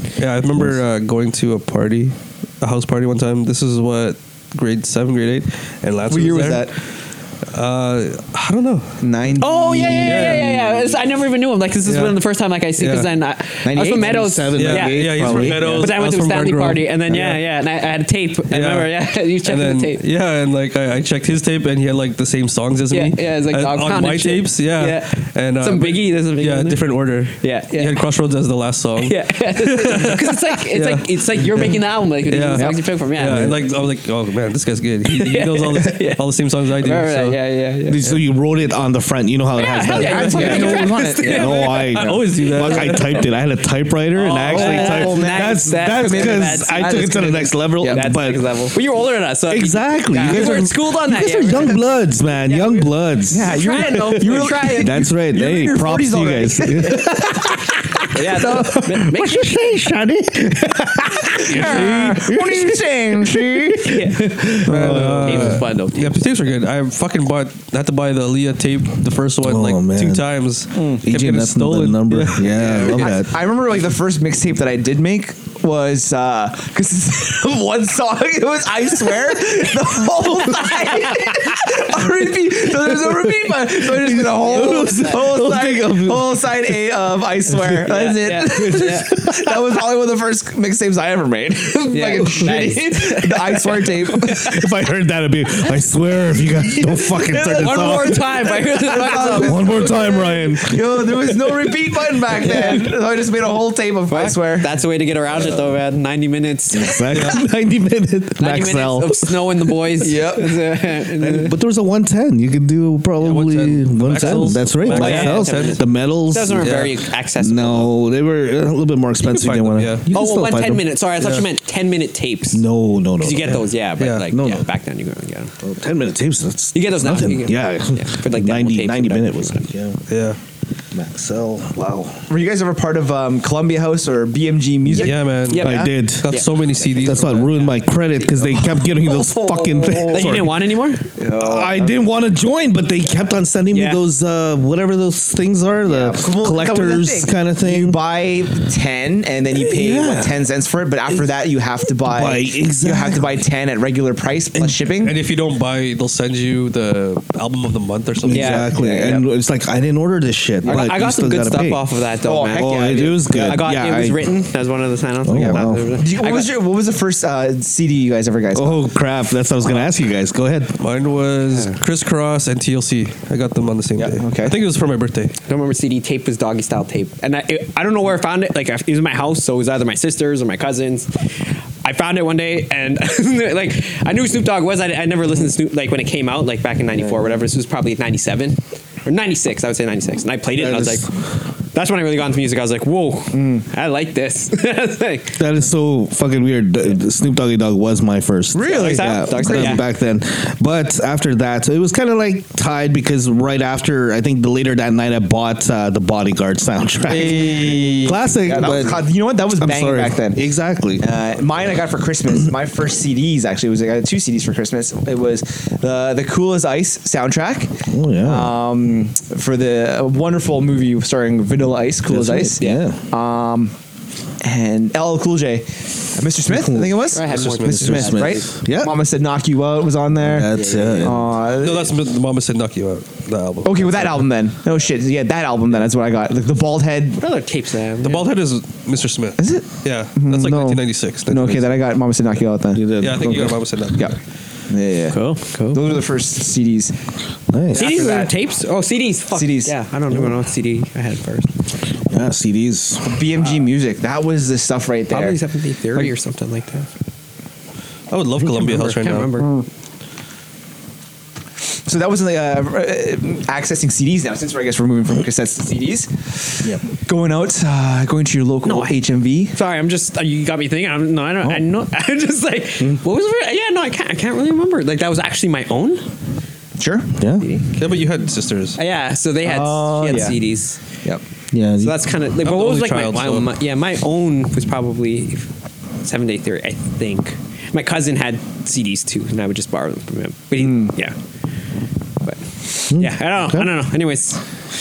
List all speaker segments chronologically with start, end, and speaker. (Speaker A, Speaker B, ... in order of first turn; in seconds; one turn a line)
Speaker A: 0.2-6.8
Speaker B: 6.1-6.8
Speaker A: 7.5-11.0
Speaker B: 9.0-10.5
Speaker C: 9.4-20.0
Speaker A: 11.8-12.2
Speaker A: 12.8-13.1
Speaker B: 13.6-14.4
Speaker D: 14.0-15.9
Speaker A: 14.6-17.4
Speaker B: 15.2-15.8
Speaker A: 18.5-37.4
Speaker C: 22.9-26.8
Speaker C: 27.4-28.0
Speaker C: 29.0-33.5
Speaker B: 32.5-32.8
Speaker D: 33.2-33.6
Speaker C: 35.1-36.2
Speaker C: 36.8-38.2
Speaker D: 37.9-48.5
Speaker C: 39.5-43.3
Speaker B: 39.9-41.7
Speaker A: 41.5-43.2
Speaker C: 44.1-55.0
Speaker B: 44.3-46.6
Speaker B: 47.8-48.1
Speaker D: 49.5-65.6
Speaker B: 50.3-50.5
Speaker B: 53.3-58.8
Speaker C: 58.1-59.6
Speaker B: 61.4-63.9
Speaker C: 61.5-61.9
Speaker C: 63.8-66.2
Speaker A: 64.7-73.1
Speaker B: 64.7-65.0
Speaker D: 69.4-70.2
Speaker B: 70.7-71.0
Speaker D: 71.0-73.4
Speaker B: 72.7-94.7
Speaker C: 81.1-81.6
Speaker D: 83.8-86.3
Speaker C: 84.5-85.1
Speaker D: 87.5-87.8
Speaker C: 87.9-89.4
Speaker C: 91.7-94.6
Speaker D: 92.1-92.8
Speaker D: 94.2-98.5
Speaker C: 96.7-100.3
Speaker B: 97.5-104.7
Speaker D: 99.4-101.3
Speaker C: 102.4-102.9
Speaker C: 104.1-107.1
Speaker D: 106.7-109.4
Speaker A: 107.1-107.4
Speaker C: 108.4-111.5
Speaker B: 110.0-110.6
Speaker D: 111.2-121.0
Speaker A: 113.2-115.8
Speaker C: 114.8-117.9
Speaker A: 116.6-116.9
Speaker A: 119.2-120.1
Speaker C: 120.1-122.7
Speaker A: 121.2-121.5
Speaker D: 122.5-123.7
Speaker C: 123.2-125.5
Speaker A: 124.0-124.3
Speaker D: 124.3-124.7
Speaker D: 125.6-130.0
Speaker C: 126.7-129.7
Speaker A: 130.1-130.4
Speaker D: 130.9-132.2
Speaker B: 132.3-135.8
Speaker D: 134.9-136.4
Speaker A: 134.9-137.7
Speaker C: 135.0-136.6
Speaker D: 137.0-140.6
Speaker B: 138.3-140.4
Speaker C: 139.9-141.1
Speaker B: 141.2-142.0
Speaker D: 141.3-148.0
Speaker C: 143.7-144.0
Speaker B: 145.9-155.2
Speaker D: 149.6-150.4
Speaker D: 152.0-153.4
Speaker A: 155.0-158.7
Speaker D: 158.2-161.8
Speaker C: 158.3-158.7
Speaker B: 158.7-159.2
Speaker C: 160.6-166.5
Speaker B: 162.2-163.7
Speaker D: 162.5-164.3
Speaker D: 165.2-165.9
Speaker B: 165.3-168.8
Speaker D: 168.5-170.8
Speaker A: 170.8-175.3
Speaker B: 174.0-174.6
Speaker C: 175.5-191.1
Speaker D: 190.6-191.1
Speaker C: 191.7-195.4
Speaker B: 193.3-193.6
Speaker D: 195.4-211.1
Speaker B: 198.5-199.8
Speaker C: 198.6-199.8
Speaker B: 207.1-210.4
Speaker B: 211.0-223.7
Speaker D: 217.9-218.6
Speaker D: 222.1-223.0
Speaker B: 224.4-232.0
Speaker D: 226.5-227.0
Speaker C: 227.1-228.5
Speaker A: 227.2-228.2
Speaker D: 227.7-229.0
Speaker D: 230.2-231.3
Speaker C: 230.5-231.2
Speaker A: 231.4-234.3
Speaker B: 233.6-237.2
Speaker C: 237.2-238.3
Speaker A: 238.0-241.7
Speaker B: 239.4-244.2
Speaker D: 242.7-243.6
Speaker A: 243.0-244.2
Speaker B: 244.7-246.9
Speaker C: 245.1-246.0
Speaker D: 247.5-248.1
Speaker B: 247.7-248.3
Speaker C: 247.7-251.5
Speaker B: 249.3-249.8
Speaker D: 252.1-253.2
Speaker B: 253.0-255.4
Speaker C: 255.1-256.9
Speaker A: 258.1-259.4
Speaker C: 258.4-259.6
Speaker B: 259.4-259.6
Speaker B: 261.9-269.6
Speaker C: 268.6-269.0
Speaker C: 269.5-276.0
Speaker B: 276.8-277.1
Speaker D: 277.2-277.5
Speaker C: 277.4-277.7
Speaker A: 277.8-278.8
Speaker C: 278.8-280.8
Speaker B: 279.4-280.4
Speaker D: 281.5-282.1
Speaker C: 281.8-285.5
Speaker A: 282.4-283.5
Speaker C: 286.0-291.1
Speaker B: 290.6-290.9
Speaker C: 292.2-294.4
Speaker D: 292.9-293.7